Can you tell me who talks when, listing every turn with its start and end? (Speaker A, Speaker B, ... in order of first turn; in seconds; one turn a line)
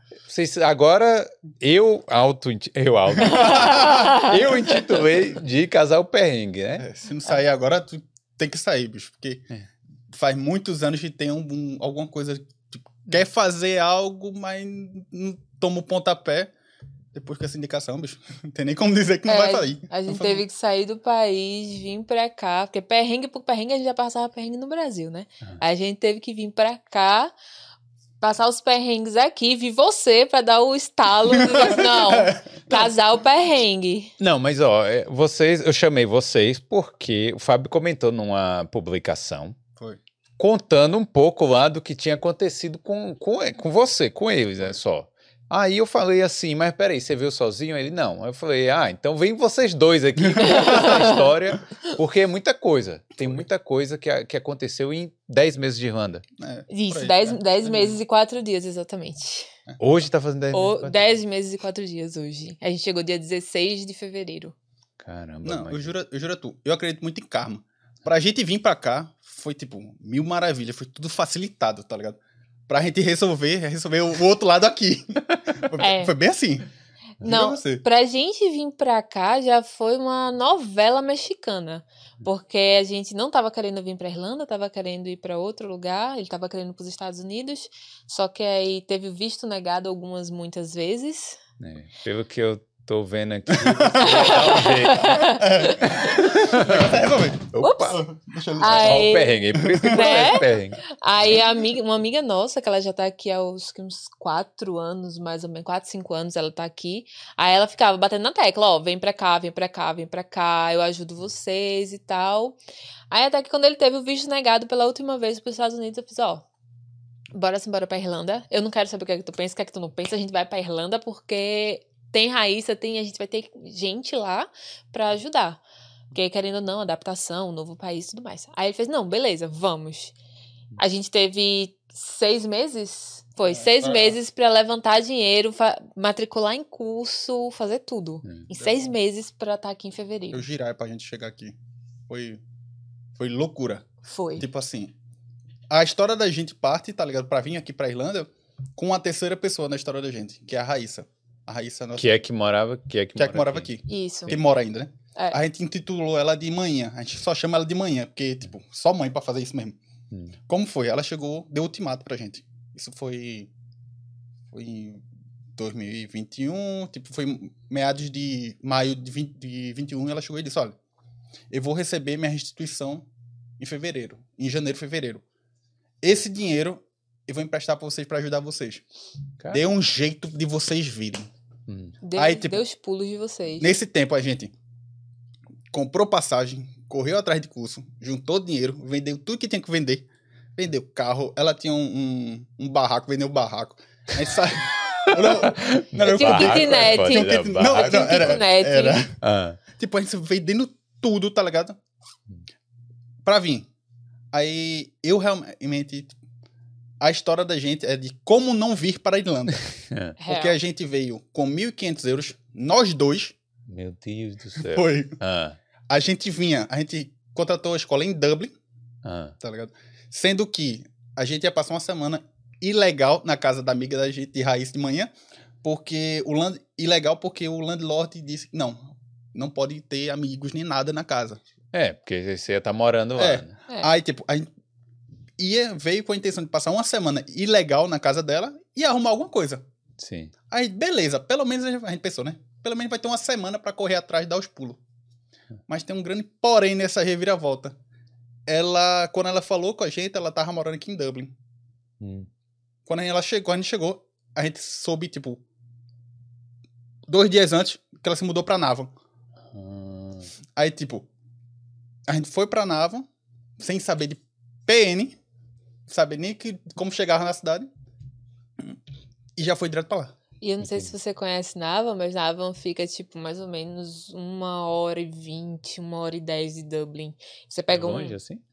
Speaker A: 0.3-6.9
Speaker B: 3.2-4.1
Speaker C: 3.4-4.3
Speaker B: 6.8-9.4
Speaker B: 10.1-16.5
Speaker B: 17.1-20.4
Speaker C: 19.3-27.3
Speaker C: 28.2-34.1
Speaker B: 31.3-32.9
Speaker A: 34.2-39.6
Speaker A: 40.4-56.2
Speaker B: 50.4-50.7
Speaker C: 50.4-51.3
Speaker B: 56.4-58.0
Speaker C: 56.7-59.5
Speaker A: 59.8-61.1
Speaker C: 60.5-64.5
Speaker A: 65.0-65.9
Speaker B: 65.4-76.7
Speaker C: 75.8-76.1
Speaker C: 77.2-91.4
Speaker B: 77.2-77.8
Speaker A: 91.6-96.9
Speaker B: 93.5-94.4
Speaker C: 94.0-96.0
Speaker B: 95.2-100.3
Speaker A: 97.5-98.0
Speaker C: 97.6-98.0
Speaker C: 98.5-112.6
Speaker A: 98.6-100.8
Speaker C: 113.1-116.5
Speaker C: 117.3-125.6
Speaker C: 126.1-130.1
Speaker C: 130.8-140.4
Speaker B: 133.5-134.2
Speaker B: 138.6-138.9
Speaker B: 140.3-141.6
Speaker B: 142.1-142.4
Speaker B: 143.1-144.9
Speaker C: 144.1-144.4
Speaker B: 145.7-152.1
Speaker A: 151.9-153.7
Speaker B: 153.1-159.8
Speaker C: 153.9-154.3
Speaker B: 160.5-163.5
Speaker B: 164.5-165.0
Speaker B: 165.6-170.8
Speaker B: 171.5-173.1
Speaker B: 173.6-175.2
Speaker B: 176.0-178.8
Speaker B: 179.5-181.3
Speaker A: 181.7-181.9
Speaker C: 182.0-183.7
Speaker B: 182.1-182.6
Speaker B: 183.6-184.5
Speaker B: 185.7-199.2
Speaker A: 195.1-198.4
Speaker C: 196.0-199.0
Speaker A: 199.2-199.6
Speaker B: 199.7-201.8
Speaker B: 203.2-203.7
Speaker B: 204.3-206.1
Speaker B: 207.0-209.6
Speaker A: 209.9-210.2
Speaker C: 210.2-210.6
Speaker B: 210.2-213.3
Speaker A: 213.7-215.6
Speaker B: 214.6-215.2
Speaker B: 215.9-218.5
Speaker A: 219.0-219.3
Speaker B: 219.4-225.1
Speaker B: 225.6-231.4
Speaker A: 231.7-233.5
Speaker B: 233.2-234.5
Speaker B: 235.4-239.6
Speaker A: 240.0-240.3
Speaker B: 240.5-244.8
Speaker B: 245.7-247.8
Speaker B: 248.5-251.3
Speaker A: 252.0-252.3
Speaker B: 252.8-255.4
Speaker B: 257.1-258.9
Speaker A: 259.5-260.3
Speaker B: 260.6-261.1
Speaker B: 262.1-263.1
Speaker B: 263.6-265.2
Speaker B: 265.9-267.7
Speaker B: 269.4-270.1
Speaker C: 270.4-278.1
Speaker A: 270.6-270.9
Speaker A: 277.7-278.4